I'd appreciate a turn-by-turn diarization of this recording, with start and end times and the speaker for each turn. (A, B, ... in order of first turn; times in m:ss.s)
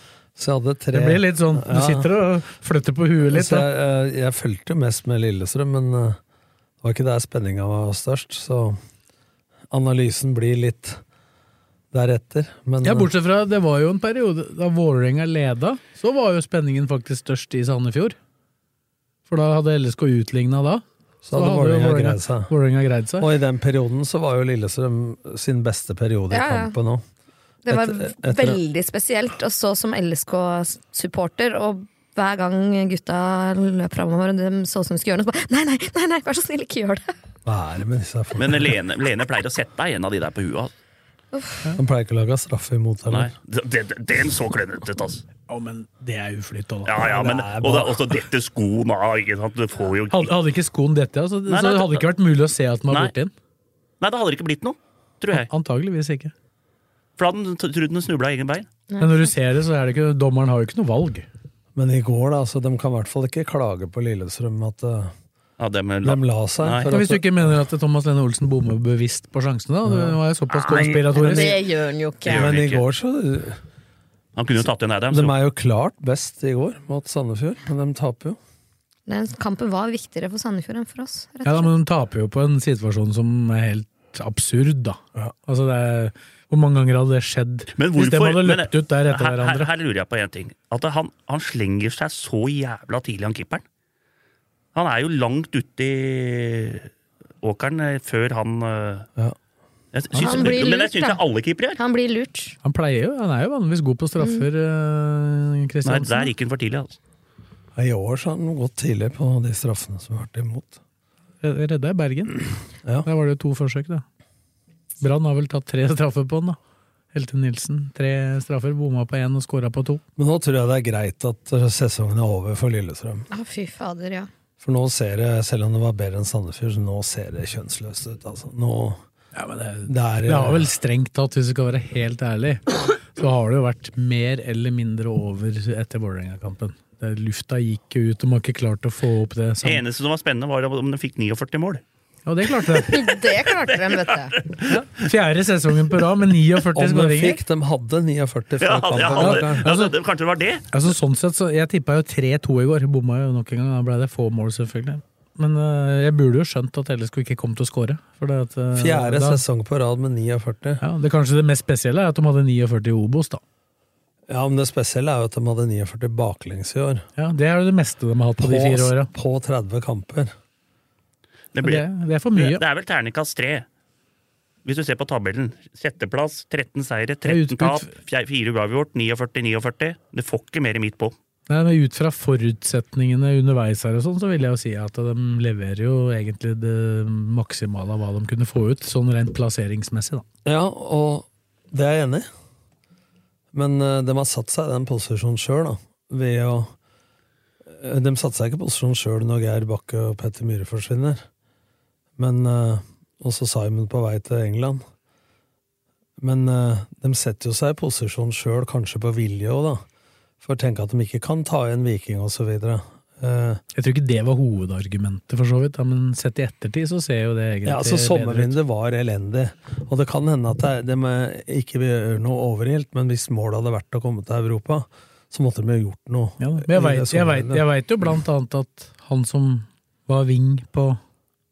0:00.4-0:02.1 A
0:00.9-0:03.7 B
0:03.3-0:06.2 A
0:06.8-0:08.8 A
0:09.7-0:11.0 A
0:11.9-0:13.1 A
0:12.8-0:18.2 B
0:19.3-0:23.3 B
0:21.2-0:22.5 A
0:23.2-0:27.0 A
0:26.3-0:26.8 C
0:27.7-0:37.1 C
0:27.7-0:28.6 A
0:37.4-0:38.8 A
0:38.4-0:40.7 D
0:41.8-0:43.3 A
0:43.1-0:45.2 D
0:45.5-0:47.1 B
0:46.8-0:50.3 D
0:47.0-0:48.2 A
0:50.1-0:53.3 B
0:51.5-0:52.1 D
0:54.0-0:55.5 D
0:55.3-0:56.3 B
0:57.2-0:58.7 D
0:58.9-0:59.3 C
0:59.0-1:01.2 B
1:01.8-1:05.1 A
1:05.6-1:06.9 D
1:06.0-1:07.5 A
1:06.9-1:11.6 B
1:09.8-1:10.2 A
1:10.5-1:10.9 D
1:10.7-1:11.1 A
1:11.1-1:12.5 C
1:12.2-1:12.9 D
1:12.2-1:13.6 A
1:14.4-1:15.3 D
1:15.1-1:18.4 A
1:19.1-1:21.7 C
1:21.4-1:29.7 B
1:27.8-1:33.6 D
1:34.7-1:36.9 D
1:37.4-1:39.1 D
1:39.9-1:41.8 D
1:40.1-1:40.6 B
1:40.2-1:41.2 C
1:41.8-1:42.6 C
1:42.6-1:46.3 B
1:44.2-1:44.4 C
1:45.8-1:47.0 D
1:47.8-1:50.8 A
1:51.4-1:52.5 B
1:53.0-1:54.0 B
1:55.0-1:56.6 B
1:57.1-2:00.0 B
2:00.2-2:03.3 A
2:03.3-2:04.3 C
2:04.6-2:09.0 A
2:09.4-2:19.8 B
2:09.9-2:10.7 A
2:19.6-2:21.8 D
2:22.2-2:23.1 B
2:22.8-2:24.5 C
2:24.6-2:27.4 B
2:26.8-2:29.7 A
2:28.6-2:30.6 D
2:29.2-2:29.9 B
2:30.7-2:39.4 B
2:38.8-2:40.8 A
2:40.8-2:43.4 B
2:44.3-2:47.1 A
2:47.2-2:49.1 B
2:48.4-2:50.3 A
2:51.5-2:53.7 D
2:51.6-2:52.6 B
2:54.6-3:01.1 D
2:57.2-2:57.9 B
3:01.5-3:10.2 B
3:10.4-3:12.3 A
3:13.5-3:16.7 A
3:17.7-3:21.2 A
3:22.2-3:24.8 A
3:26.2-3:29.8 A
3:30.4-3:33.6 A
3:33.8-3:38.6 B
3:37.6-3:47.6 A
3:46.4-3:51.0 B